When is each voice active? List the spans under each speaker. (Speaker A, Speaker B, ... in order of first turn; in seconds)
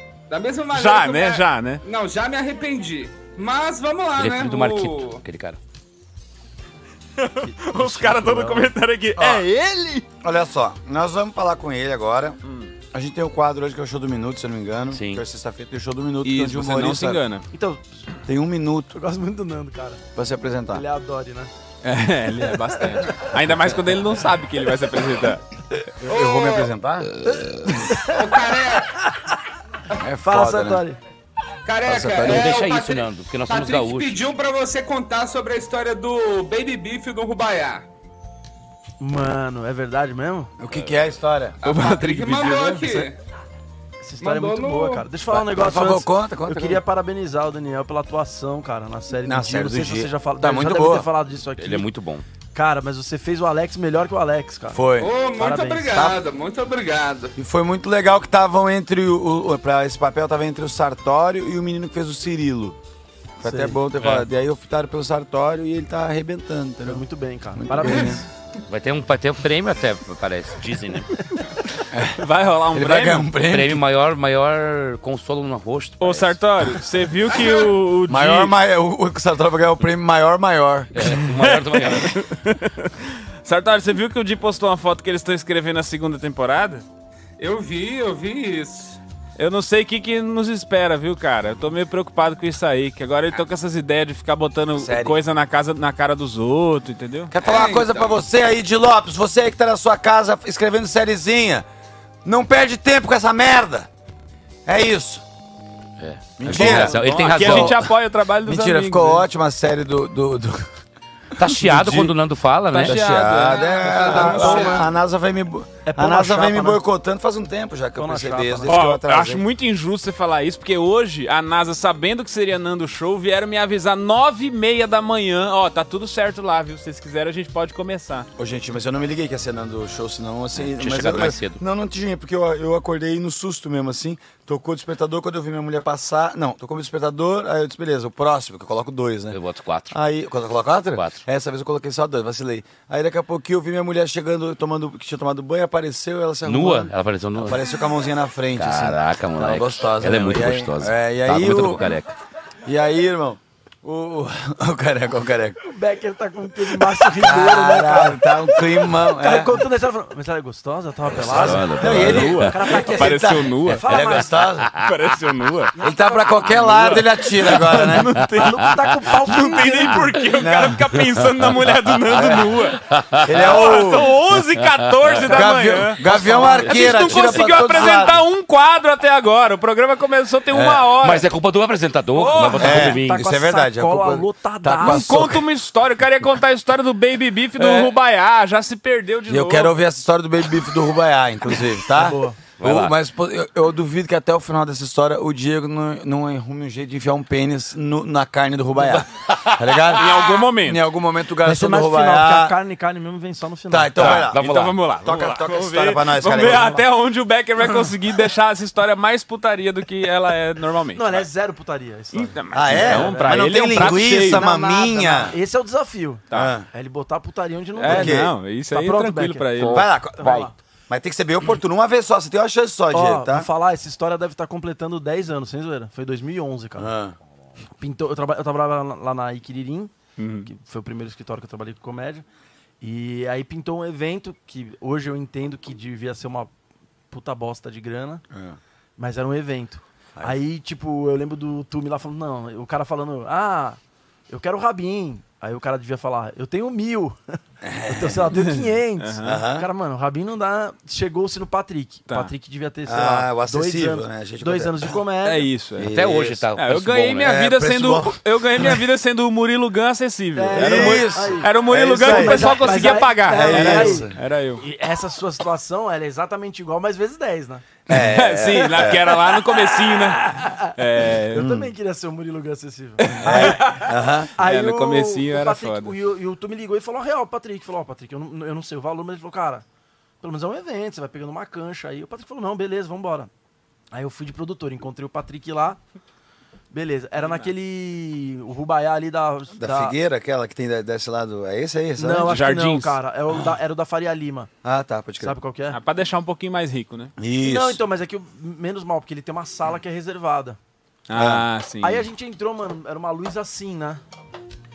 Speaker A: 0.3-5.2, 26.1-26.7, 28.1-28.9, 31.6-37.8, 41.6-43.2, 44.2-45.0, 55.0-57.3, 77.4-77.7, 87.4-89.0, 97.4-98.2, 113.7-114.9
Speaker B: 0.7-1.8, 7.2-10.0, 12.4-12.7, 16.2-17.4, 21.8-25.4, 41.6-43.1, 72.1-73.3, 76.0-78.5, 81.2-86.8, 89.4-97.3, 106.5-109.2, 112.7-114.7, 118.7-128.3, 161.8-164.1, 164.8-165.7, 166.6-168.7, 169.2-181.3, 182.1-182.9, 184.8-189.7, 199.9-200.8, 204.0-211.2, 212.1-214.5, 216.3-216.5, 217.7-219.9, 230.2-230.5, 248.3-249.4, 255.2-256.0, 256.5-264.6, 267.9-271.5, 273.0-275.9, 287.2-287.5, 292.2-293.0, 295.7-297.1, 301.1-302.1
Speaker C: 4.2-5.6, 14.9-15.2, 27.2-27.7, 32.2-34.2, 51.6-52.2, 68.7-71.1, 73.4-76.4, 80.9-82.2, 106.0-107.9, 111.4-113.3, 130.6-131.6, 139.3-139.9, 140.9-141.2, 146.4-147.6, 148.6-152.1, 161.2-162.5, 171.4-172.3, 172.8-173.4, 174.7-175.4, 176.3-178.0, 181.0-183.2, 192.6-192.9, 199.3-199.8, 204.0-204.8, 255.9-257.3
Speaker D: 7.4-8.7, 17.5-18.0, 18.9-20.0, 20.7-21.5, 22.4-23.3, 27.3-28.2, 30.2-31.0, 39.0-40.5, 44.0-51.9, 52.5-54.8, 55.4-56.1, 63.4-63.8, 66.8-68.2, 114.0-114.8, 115.8-116.8, 118.0-118.8, 155.6-164.3, 165.7-170.3, 176.0-176.7, 182.9-185.2, 191.9-192.4, 201.4-204.1, 206.4-206.8, 210.9-220.6, 222.9-226.9, 227.8-232.2, 232.8-236.5, 237.1-238.2, 239.0-255.5, 260.4-267.6, 270.3-270.7, 271.3-273.8, 274.4-279.6, 280.2-283.3, 283.9-285.8, 286.7-289.9, 292.0-294.5, 295.2-295.8, 297.4-300.6, 301.8-304.0
Speaker E: 9.2-9.4, 10.2-12.4, 12.9-17.2, 18.2-19.0, 20.1-20.8, 26.0-27.1, 30.0-30.8, 31.8-32.5, 40.6-41.6, 45.3-46.8, 49.2-51.1, 54.7-55.1, 55.9-56.1, 57.4-62.8, 63.4-67.0, 67.5-68.2, 71.9-72.2, 72.7-73.8, 78.1-81.2, 94.8-95.2, 97.3-101.7, 102.2-103.9, 104.7-105.2, 106.4-107.9, 108.4-110.7, 111.4-112.2, 112.8-119.4, 128.4-139.4, 139.9-151.9, 152.7-155.6, 157.0-159.6, 161.2-164.7, 165.8-168.1, 170.4-170.9, 172.1-172.5, 173.2-174.1, 175.2-178.2, 180.5-180.9, 182.5-185.4, 189.3-202.6, 203.7-204.4, 205.0-206.8, 212.5-215.3, 216.3-216.7, 217.8-218.3, 219.6-223.5, 226.8-227.1, 238.3-238.6, 247.6-248.2, 249.2-249.7, 252.8-254.9, 255.8-256.4, 257.2-258.2, 260.6-264.2, 267.9-269.2, 271.4-271.7, 273.1-274.3, 289.6-292.4, 294.6-295.4, 297.2-297.8, 301.1-301.4